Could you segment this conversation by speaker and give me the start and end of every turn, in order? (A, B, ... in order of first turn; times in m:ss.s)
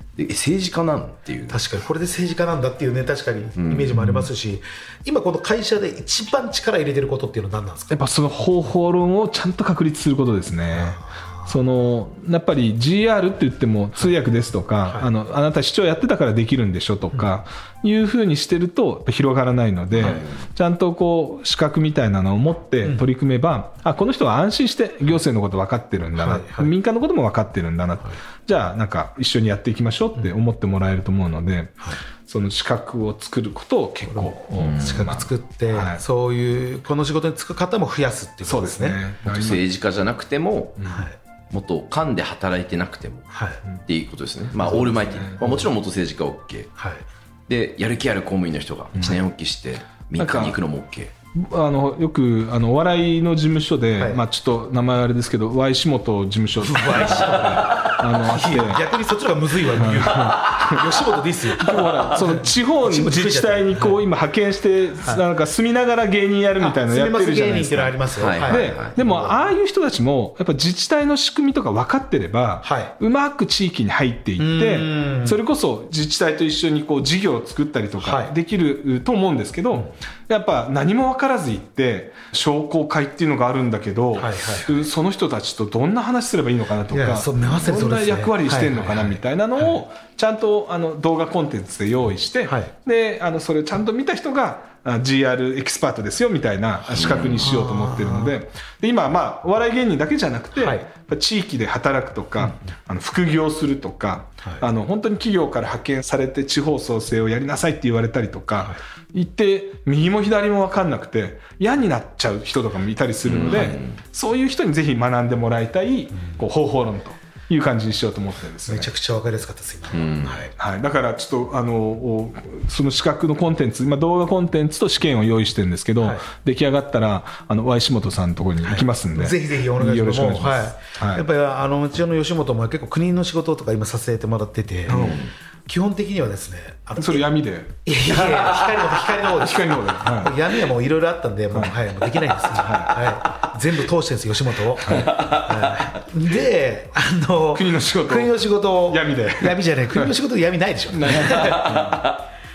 0:00.2-0:01.6 A
0:01.5-0:08.0 B
0:03.6-0:04.0 A
0:04.0-0:04.2 C
0:07.9-0:36.0 C
0:10.7-0:11.5 B
0:20.0-0:20.4 A
0:20.0-0:20.2 B
0:26.2-0:26.7 B
0:34.1-0:39.0 B
0:34.6-0:35.1 A
0:38.4-0:39.6 C
0:39.2-0:40.8 A
0:40.8-0:41.0 C
0:40.8-0:41.1 B
0:41.5-0:43.3 A
0:43.3-0:43.6 B
0:43.8-0:46.7 A
0:44.6-0:45.7 B
0:44.6-0:45.4 C
0:46.8-0:47.0 B
0:47.5-0:51.1 A
0:50.2-0:50.6 C
0:51.3-0:58.8 C
0:54.0-0:54.2 B
0:56.6-1:04.0 B
0:59.7-1:01.0 C
1:01.6-1:58.9 C
1:06.6-1:09.5 B
1:08.2-1:09.0 A
1:12.6-1:12.9 B
1:14.4-1:15.4 B
1:18.0-1:18.3 B
1:24.2-1:24.9 B
1:26.9-1:29.8 B
1:32.4-1:32.7 B
1:36.9-1:37.5 A
1:37.0-1:38.4 B
1:40.6-1:40.8 B
1:53.2-1:54.0 A
1:56.1-1:56.4 B
1:58.7-2:00.5 B
1:59.9-2:00.4 A
2:00.6-2:11.2 C
2:06.0-2:06.2 B
2:08.6-2:15.1 B
2:14.9-2:15.3 C
2:14.9-2:15.3 A
2:15.7-2:17.2 B
2:17.0-2:20.4 C
2:17.8-2:31.9 B
2:22.4-2:23.2 C
2:24.8-2:25.1 C
2:25.1-2:25.6 A
2:27.5-2:30.1 C
2:30.9-2:32.1 C
2:31.2-2:32.2 A